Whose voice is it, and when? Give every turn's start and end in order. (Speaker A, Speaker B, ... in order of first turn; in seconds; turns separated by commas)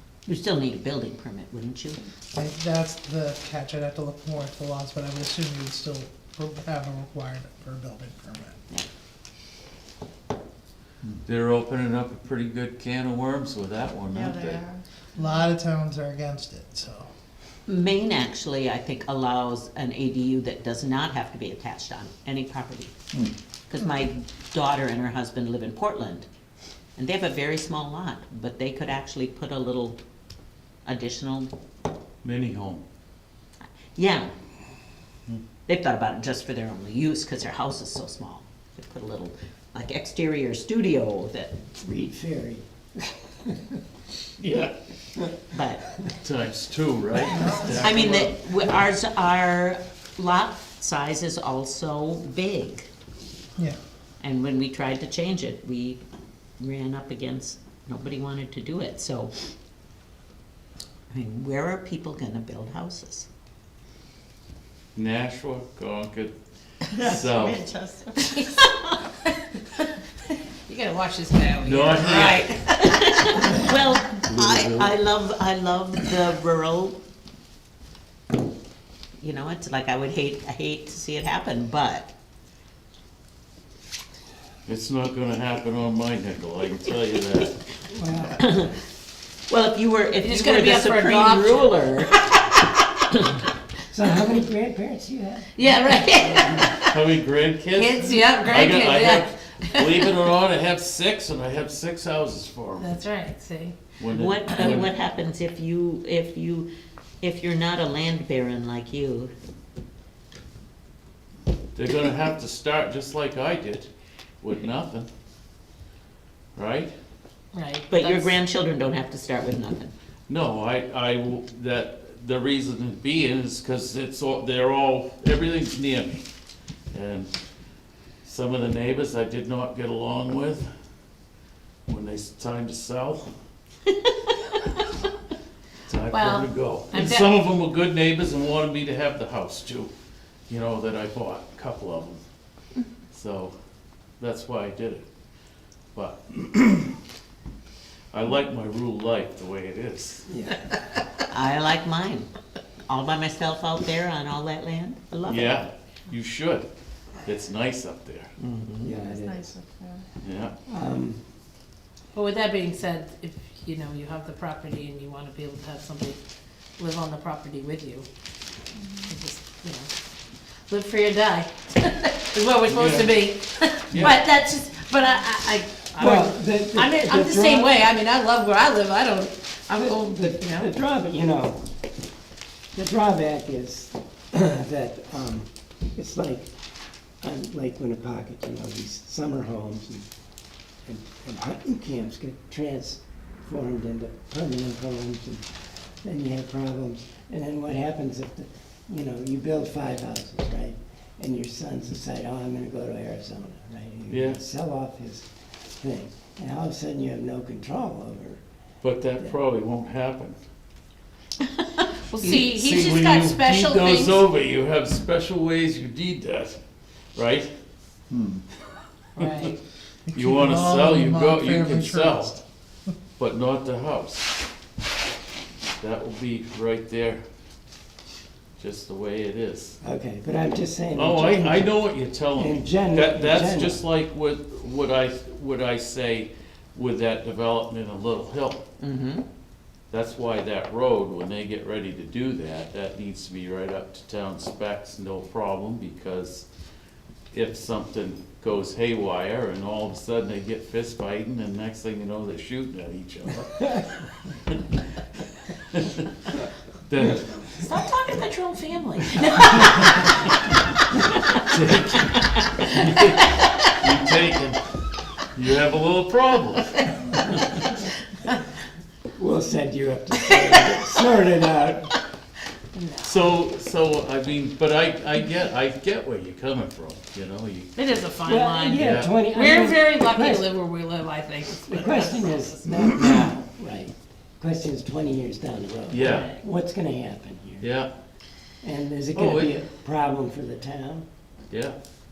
Speaker A: 0.2-2.0, Speaker B: 2.3-8.6, Speaker C: 11.2-14.7, Speaker D: 14.1-14.8, Speaker B: 15.2-17.1, Speaker A: 17.7-22.9, Speaker A: 23.7-26.2, Speaker A: 27.0-30.0, Speaker A: 30.8-31.5, Speaker C: 32.2-32.8, Speaker A: 33.9-34.3, Speaker A: 35.6-41.5, Speaker E: 41.8-43.8, Speaker C: 44.4-44.7, Speaker A: 45.5-45.9, Speaker C: 46.2-48.4, Speaker B: 47.3-47.9, Speaker A: 47.8-52.9, Speaker A: 54.2-56.0, Speaker A: 56.6-59.3, Speaker A: 61.1-63.3, Speaker C: 64.9-66.3, Speaker C: 66.9-67.8, Speaker D: 67.0-68.2, Speaker F: 70.7-73.0, Speaker C: 71.6-72.5, Speaker A: 72.1-77.0, Speaker C: 74.3-74.9, Speaker A: 79.2-82.1, Speaker C: 84.7-87.6, Speaker E: 87.9-88.5, Speaker A: 88.4-88.7, Speaker A: 89.5-92.4, Speaker F: 90.2-92.0, Speaker E: 93.9-95.5, Speaker F: 95.5-96.5, Speaker A: 95.8-96.7, Speaker C: 96.2-102.9, Speaker F: 97.7-100.1, Speaker F: 102.8-103.8, Speaker C: 104.0-104.9, Speaker A: 104.1-106.7, Speaker A: 107.2-109.3, Speaker C: 111.7-113.9, Speaker C: 114.4-115.1, Speaker C: 116.5-116.9, Speaker F: 117.5-118.3, Speaker A: 117.9-119.9, Speaker C: 120.3-126.2, Speaker C: 126.9-127.3, Speaker C: 128.2-130.7, Speaker C: 131.9-133.3, Speaker C: 135.8-139.9, Speaker F: 136.1-137.3, Speaker C: 140.5-142.2, Speaker C: 143.1-143.5, Speaker C: 144.2-145.0, Speaker C: 145.9-147.0, Speaker C: 148.1-150.2, Speaker E: 150.3-150.8, Speaker A: 151.3-152.3, Speaker A: 152.9-155.7, Speaker C: 155.3-156.7, Speaker C: 157.2-158.3, Speaker A: 158.4-158.9, Speaker E: 158.8-159.6, Speaker D: 159.0-160.1, Speaker C: 160.2-160.5, Speaker E: 160.7-161.2, Speaker F: 162.1-166.2, Speaker F: 166.8-168.1, Speaker F: 169.0-169.9, Speaker F: 170.7-180.7, Speaker C: 172.7-173.3, Speaker C: 173.9-174.2, Speaker E: 176.0-177.7, Speaker E: 179.8-181.6, Speaker E: 182.7-186.5, Speaker E: 187.2-190.1, Speaker E: 190.8-205.2, Speaker C: 204.1-204.4, Speaker E: 205.8-208.4, Speaker C: 208.8-210.4, Speaker F: 212.0-214.2, Speaker C: 212.2-216.6, Speaker C: 217.1-217.5, Speaker F: 219.2-219.6, Speaker B: 220.1-222.9, Speaker C: 220.1-222.3, Speaker C: 223.2-224.4, Speaker C: 225.8-227.2, Speaker C: 228.6-229.8, Speaker E: 229.8-231.8, Speaker C: 230.9-238.6, Speaker E: 232.3-233.8, Speaker A: 238.8-239.2, Speaker C: 239.9-246.4, Speaker C: 247.3-254.7, Speaker C: 255.6-256.1, Speaker C: 256.9-257.6, Speaker A: 257.6-260.1, Speaker A: 261.1-261.4, Speaker C: 261.4-267.2, Speaker E: 269.1-271.9, Speaker F: 270.3-270.6, Speaker F: 272.7-273.3, Speaker C: 273.0-278.1, Speaker F: 277.8-282.9, Speaker E: 278.2-280.5, Speaker C: 278.8-279.1, Speaker E: 281.7-287.7, Speaker C: 285.9-286.3, Speaker F: 285.9-286.4, Speaker C: 287.6-287.9, Speaker E: 288.6-291.1, Speaker C: 289.1-289.6, Speaker C: 291.5-291.8